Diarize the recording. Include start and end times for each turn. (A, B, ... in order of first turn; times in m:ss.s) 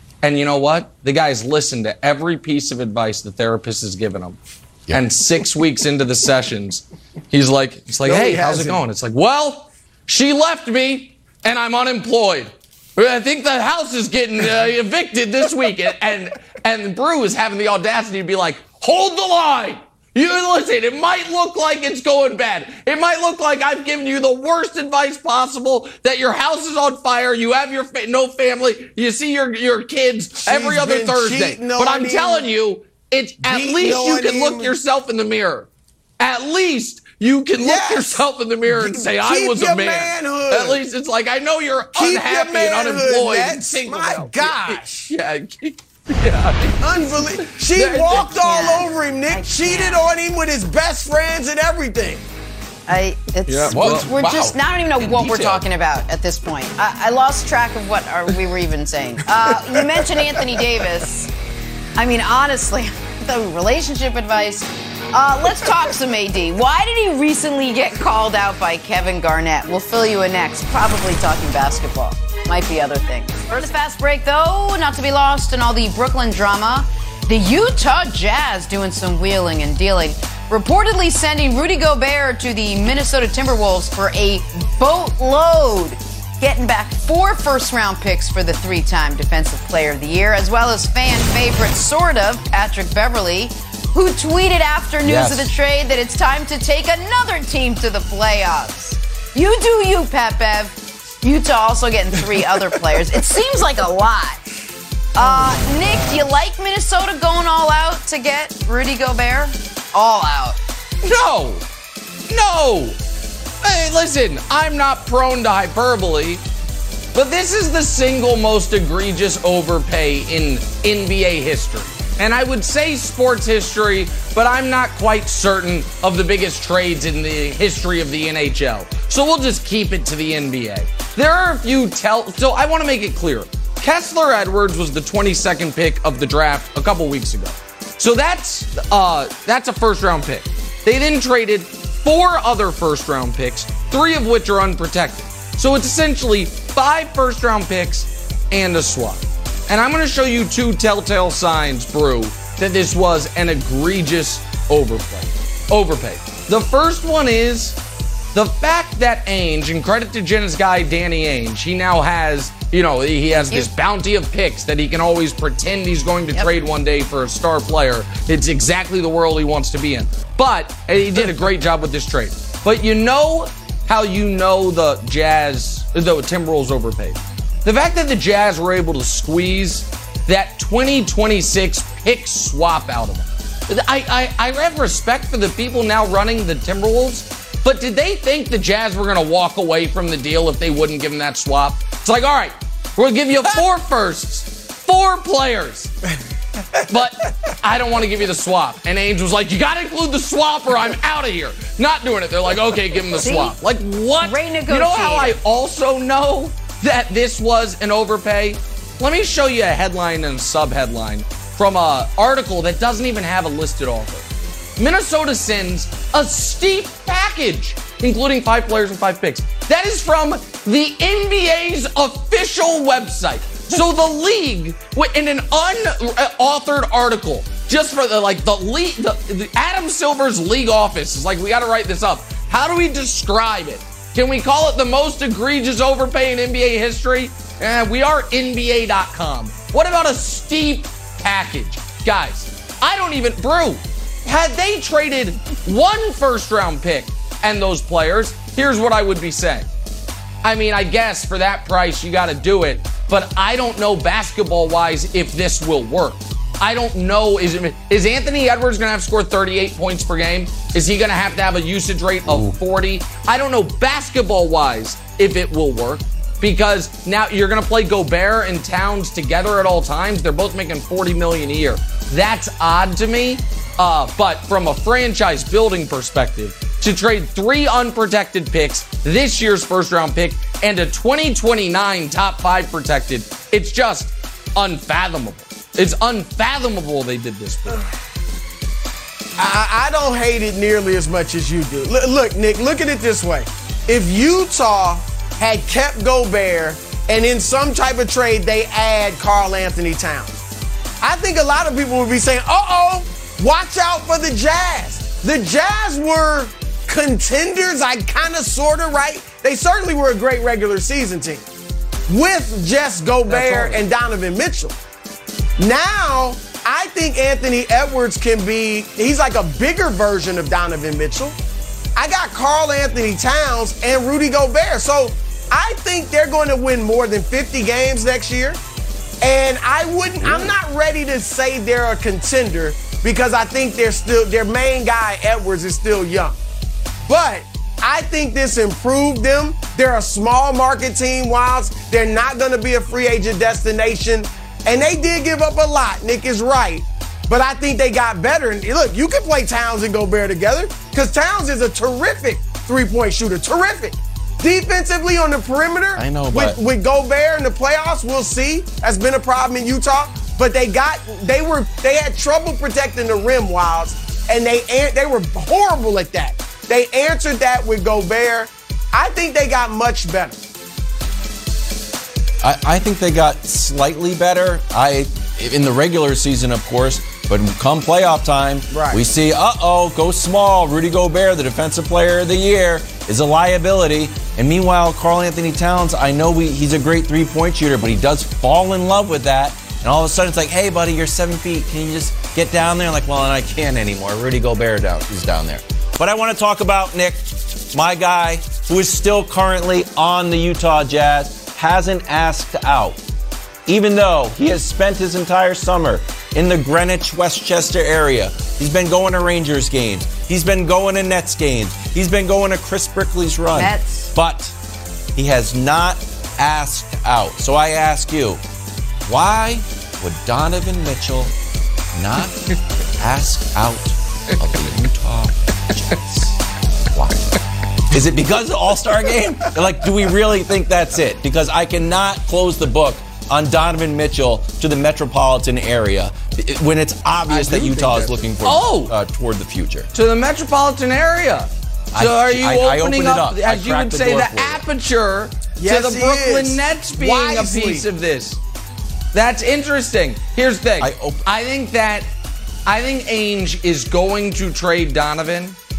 0:00.2-0:04.4 A
0:04.9-0:35.7 A
0:08.0-0:08.8 B
0:30.4-0:32.5 B
0:33.4-0:34.7 B
0:36.2-0:48.4 A
0:37.6-0:40.8 B
0:41.9-0:45.1 B
0:46.8-0:52.2 B
0:48.3-0:50.0 C
0:52.9-1:01.3 C
0:53.5-0:54.0 A
0:53.7-0:55.6 D
1:02.0-1:44.4 C
1:35.0-1:35.5 D
1:45.1-1:50.6 C
1:51.0-1:51.6 A
1:52.3-1:53.0 A
1:53.6-1:56.4 A
1:57.1-2:37.8 A
2:38.3-3:15.9 A
2:43.4-2:43.7 C
3:16.9-3:34.2 A
3:23.2-3:23.6 C
3:24.2-3:25.4 C
3:34.8-4:09.7 A
4:10.4-4:47.8 A
4:22.2-4:22.6 D
4:49.4-5:00.4 B
5:01.0-5:11.4 B
5:12.1-5:14.7 B
5:13.3-5:13.8 A
5:15.6-5:21.4 B
5:22.0-5:28.6 B
5:29.2-5:36.4 B
5:37.1-6:10.4 B
5:56.0-5:56.6 D
6:12.4-6:43.0 D
6:18.7-6:19.1 B
6:43.7-6:54.5 D
6:53.5-6:54.1 C
6:55.2-6:58.4 D
6:59.0-7:01.3 D
7:01.9-7:06.3 D
7:06.9-7:19.9 D
7:17.2-7:18.3 B
7:18.4-7:18.9 A
7:19.9-7:28.4 A
7:21.9-7:24.6 D
7:25.6-7:27.9 B
7:29.1-7:32.0 A
7:30.8-7:31.2 D
7:32.6-7:35.6 A